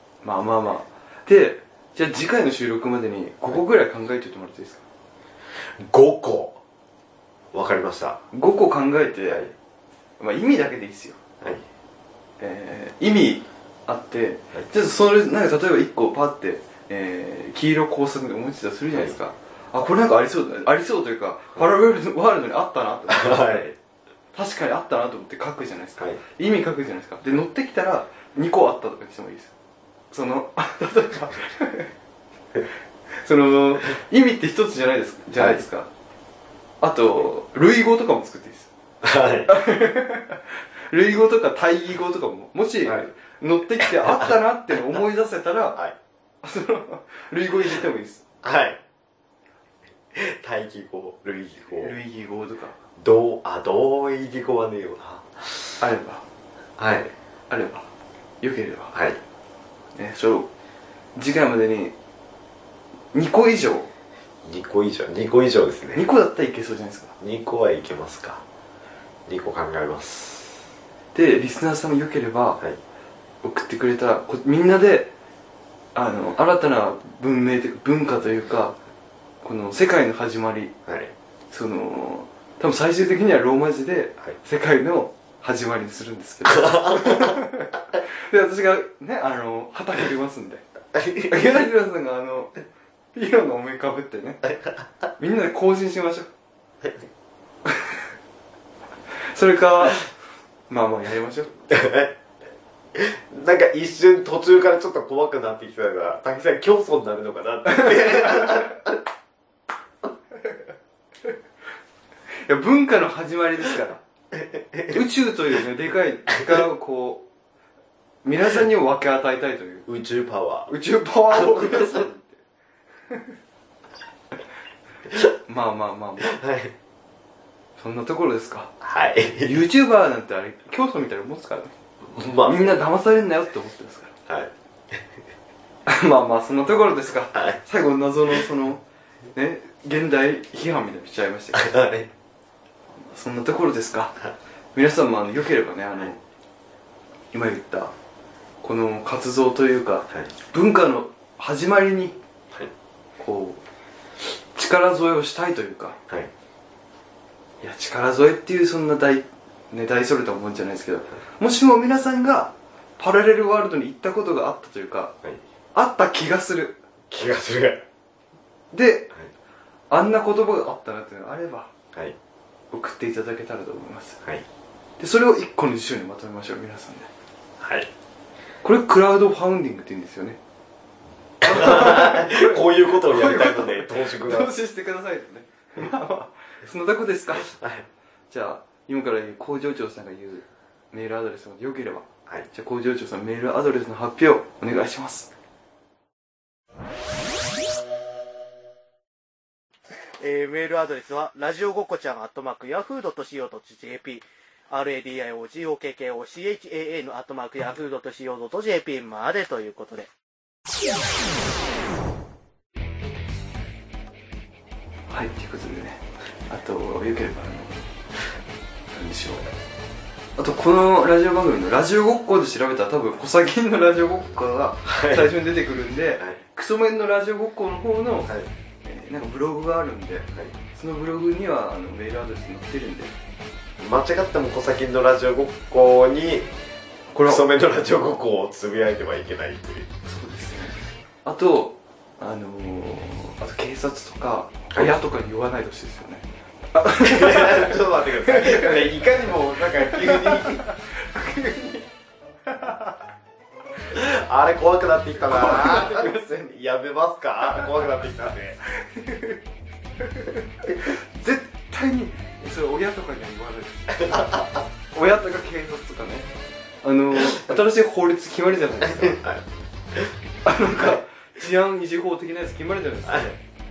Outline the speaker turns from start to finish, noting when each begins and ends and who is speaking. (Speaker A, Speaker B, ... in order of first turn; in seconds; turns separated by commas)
Speaker A: 0.2-4.8, Speaker B: 5.8-6.6, Speaker B: 7.5-8.2, Speaker A: 8.3-9.5, Speaker A: 10.2-11.2, Speaker A: 12.4-23.6, Speaker B: 23.1-23.8, Speaker A: 24.3-29.5, Speaker A: 30.1-31.9, Speaker A: 33.1-35.9, Speaker B: 35.4-35.6, Speaker A: 36.8-38.7, Speaker B: 39.0-39.5, Speaker A: 39.5-45.8, Speaker B: 42.8-43.1, Speaker B: 43.8-44.3, Speaker A: 46.4-48.2, Speaker B: 48.4-48.8, Speaker B: 50.1-51.9, Speaker A: 51.8-52.8, Speaker B: 53.0-55.7, Speaker A: 55.8-56.2, Speaker B: 56.8-57.1, Speaker A: 57.5-57.9, Speaker A: 58.4-58.9, Speaker B: 58.9-59.2, Speaker A: 59.9-60.5, Speaker A: 61.1-61.9, Speaker A: 63.1-63.9, Speaker B: 64.4-66.0, Speaker A: 65.9-67.1, Speaker B: 67.2-68.4, Speaker B: 69.3-70.6, Speaker A: 71.1-72.6, Speaker A: 73.4-75.1, Speaker A: 75.9-78.8, Speaker A: 79.4-80.7, Speaker B: 80.8-81.1, Speaker A: 81.5-90.6, Speaker B: 86.5-87.4, Speaker B: 90.9-91.4, Speaker A: 91.2-92.6, Speaker A: 93.1-94.5, Speaker B: 94.5-94.8, Speaker A: 95.2-96.3, Speaker B: 96.8-97.1, Speaker A: 97.7-98.0, Speaker A: 99.3-100.1, Speaker A: 100.7-101.6, Speaker B: 101.7-102.1, Speaker B: 102.9-109.0, Speaker A: 107.7-108.6, Speaker A: 112.4-114.0, Speaker B: 114.3-115.0, Speaker A: 114.9-117.2, Speaker A: 118.2-119.9, Speaker B: 119.9-120.7, Speaker A: 120.7-122.4, Speaker B: 121.3-122.1, Speaker A: 125.5-126.4, Speaker B: 126.2-126.7, Speaker A: 127.8-128.7, Speaker B: 128.8-129.5, Speaker A: 129.4-131.7, Speaker B: 132.0-132.8, Speaker A: 132.4-134.1, Speaker B: 134.3-135.1, Speaker A: 135.9-141.7, Speaker B: 141.5-142.1, Speaker A: 142.9-144.2, Speaker A: 144.7-146.2, Speaker A: 147.3-147.9, Speaker A: 148.6-152.2, Speaker A: 153.2-153.6, Speaker A: 154.5-156.0, Speaker A: 157.6-165.1, Speaker A: 165.7-166.8, Speaker B: 167.1-167.8, Speaker A: 168.7-169.1, Speaker A: 169.9-171.7, Speaker A: 172.7-174.2, Speaker A: 175.0-177.1, Speaker B: 177.6-177.9, Speaker A: 178.6-180.4, Speaker B: 181.4-184.5, Speaker A: 181.4-187.5, Speaker B: 187.4-187.9, Speaker A: 188.3-195.3, Speaker C: 200.2-210.1, Speaker A: 215.1-217.9, Speaker A: 218.9-219.5, Speaker A: 220.4-228.3, Speaker B: 224.9-225.3, Speaker A: 228.8-233.1, Speaker B: 233.8-236.5, Speaker A: 237.1-237.4, Speaker B: 237.2-239.9, Speaker A: 240.0-249.1, Speaker B: 247.0-250.6, Speaker A: 249.7-251.9, Speaker A: 252.5-252.9, Speaker B: 253.9-258.6, Speaker A: 255.2-256.5, Speaker A: 258.7-259.4, Speaker A: 260.0-266.3, Speaker B: 263.9-264.6, Speaker A: 266.8-269.2, Speaker B: 268.8-270.1, Speaker A: 270.4-273.3, Speaker B: 273.1-273.4